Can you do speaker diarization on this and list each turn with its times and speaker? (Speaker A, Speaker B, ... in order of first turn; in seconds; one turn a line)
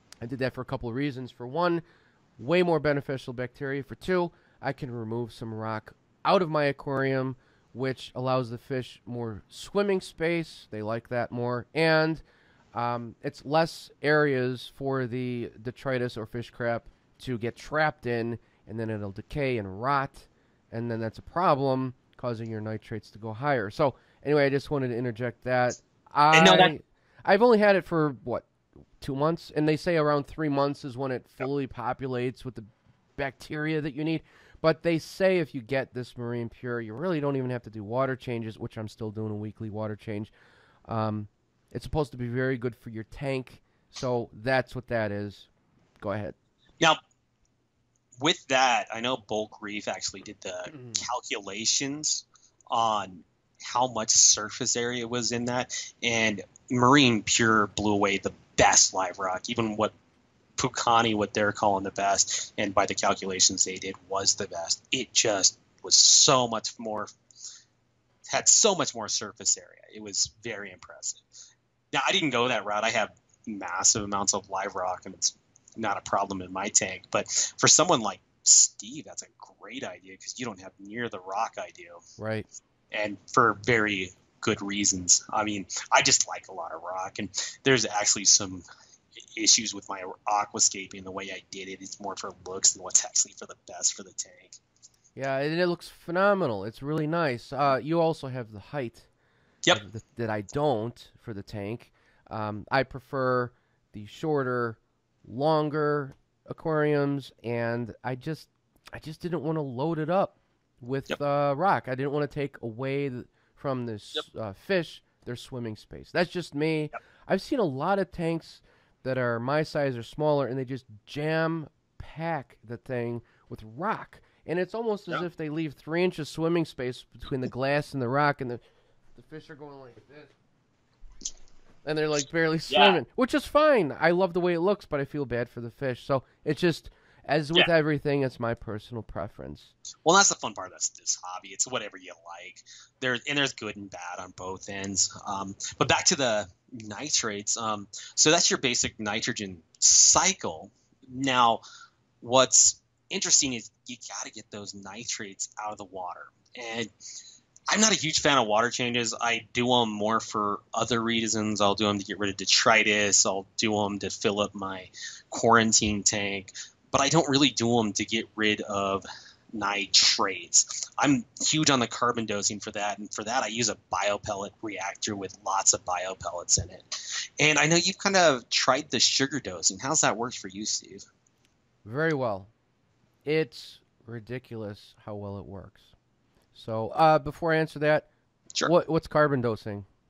Speaker A: 0.2-1.8
Speaker A: 2.4-12.2
Speaker A: 12.7-28.5
Speaker B: 26.3-26.7
Speaker A: 29.0-40.3
Speaker A: 40.9-45.5
Speaker A: 46.0-46.4
Speaker B: 48.2-59.9
Speaker A: 50.7-51.0
Speaker B: 60.6-67.1
Speaker B: 68.3-71.2
Speaker B: 71.9-82.0
Speaker A: 82.2-82.5
Speaker B: 82.9-88.6
Speaker B: 89.2-94.6
Speaker A: 95.2-99.1
Speaker A: 99.7-128.6
Speaker A: 129.2-130.3
Speaker A: 131.8-139.7
Speaker B: 132.7-133.0
Speaker B: 140.0-151.6
Speaker B: 152.2-156.9
Speaker B: 157.7-181.0
Speaker A: 181.8-182.5
Speaker A: 183.2-185.9
Speaker A: 186.5-188.1
Speaker A: 188.6-189.8